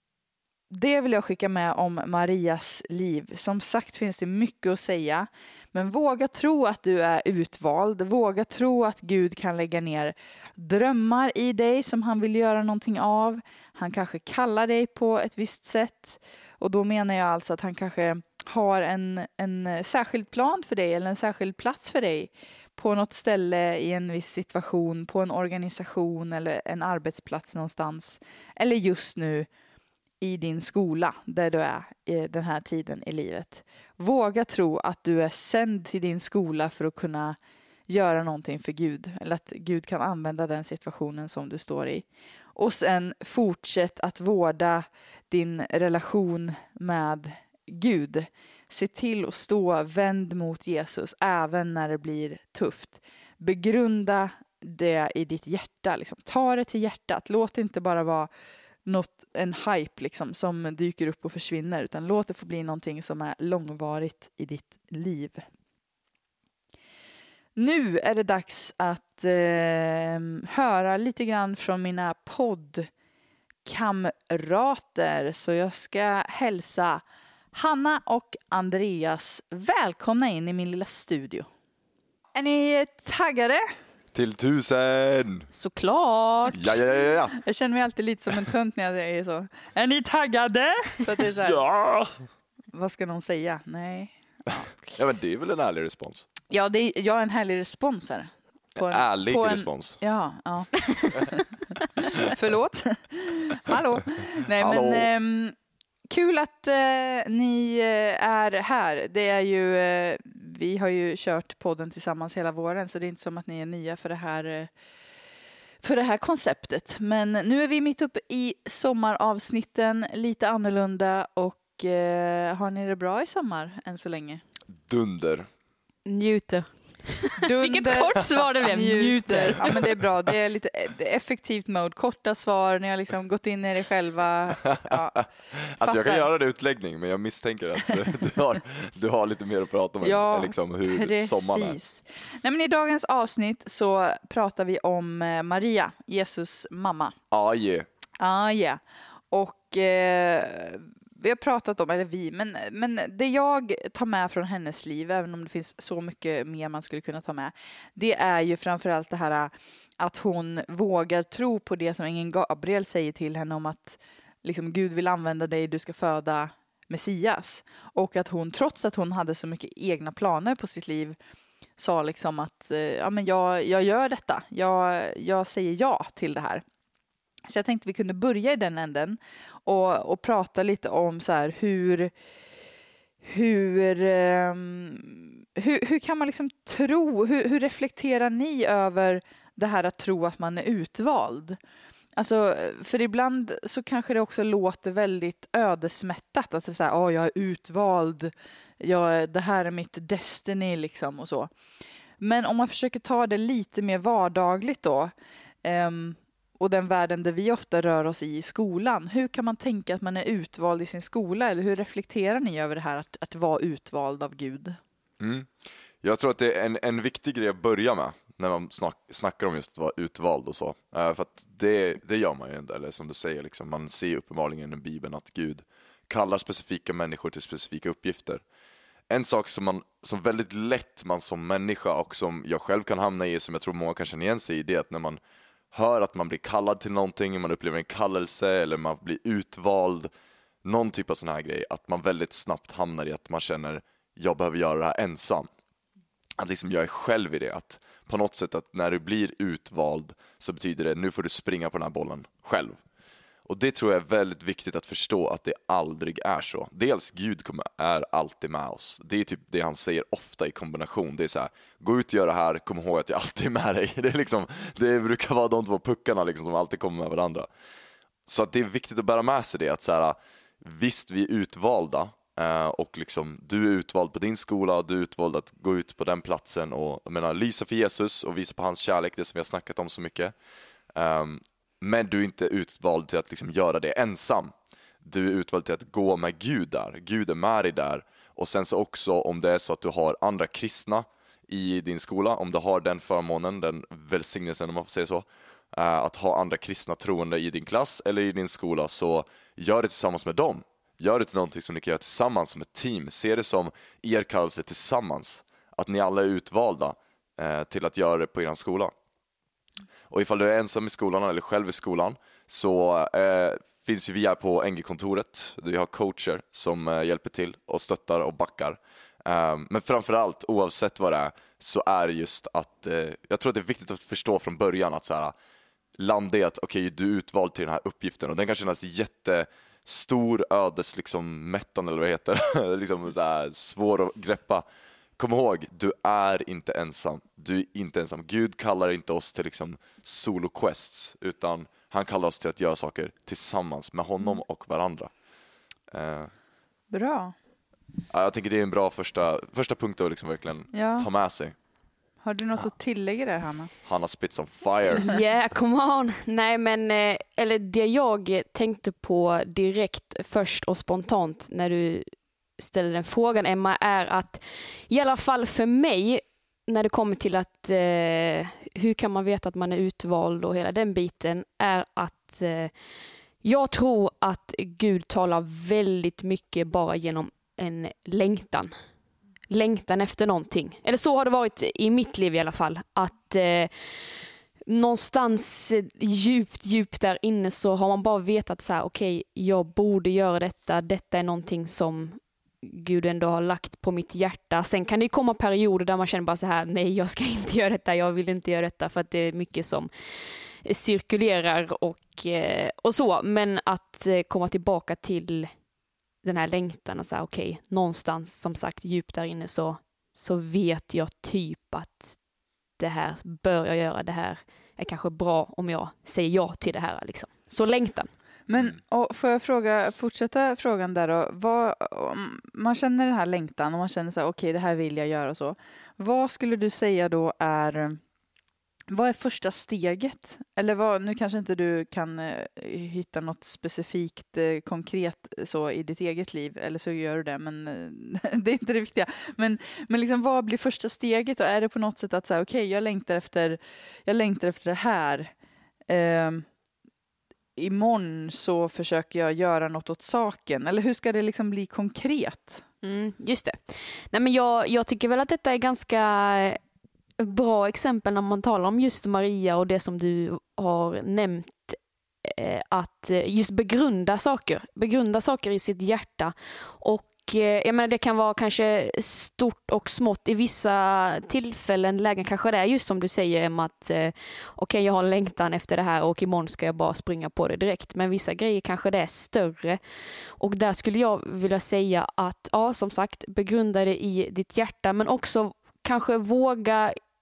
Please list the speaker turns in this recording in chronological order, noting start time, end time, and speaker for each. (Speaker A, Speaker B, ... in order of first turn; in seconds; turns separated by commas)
Speaker A: 0.7-29.5, Speaker A: 30.2-37.4, Speaker A: 37.9-58.3, Speaker A: 58.8-65.5, Speaker A: 67.6-72.9, Speaker A: 73.6-81.5, Speaker A: 82.3-83.6, Speaker B: 84.1-85.5, Speaker C: 85.5-86.8, Speaker B: 86.5-87.4, Speaker A: 87.3-91.6, Speaker B: 91.4-92.2, Speaker A: 92.7-94.7, Speaker B: 94.9-96.3, Speaker A: 96.5-101.4, Speaker B: 98.8-100.0, Speaker A: 102.0-105.5, Speaker B: 104.6-105.1, Speaker A: 106.1-114.7, Speaker A: 115.8-124.4, Speaker B: 124.8-125.5, Speaker C: 126.0-129.8, Speaker A: 127.4-135.2, Speaker B: 135.6-141.8, Speaker A: 135.8-136.3, Speaker A: 140.0-147.1, Speaker B: 147.3-147.8, Speaker A: 148.2-171.2, Speaker A: 171.8-176.6, Speaker A: 177.5-182.1, Speaker A: 183.2-191.6, Speaker A: 192.2-201.5, Speaker A: 202.2-205.1, Speaker A: 205.6-214.8, Speaker B: 215.2-215.5, Speaker B: 216.0-228.4, Speaker B: 229.1-235.2, Speaker B: 235.7-240.1, Speaker B: 240.6-245.5, Speaker B: 246.4-252.8, Speaker B: 253.4-267.5, Speaker B: 268.2-280.3, Speaker B: 280.9-308.9, Speaker B: 310.1-325.3, Speaker B: 326.0-334.6, Speaker B: 335.2-345.1, Speaker B: 345.9-346.3, Speaker A: 346.9-347.3, Speaker B: 348.1-351.5, Speaker A: 350.7-351.1, Speaker A: 352.2-353.7, Speaker B: 353.8-355.2, Speaker C: 355.0-372.7, Speaker C: 373.4-378.7, Speaker C: 379.5-405.6, Speaker C: 406.2-412.2, Speaker C: 412.8-418.1, Speaker A: 418.5-428.0, Speaker A: 428.9-445.3, Speaker A: 445.9-446.5, Speaker A: 447.6-452.6, Speaker C: 452.8-456.6, Speaker C: 457.2-479.8, Speaker C: 480.4-486.9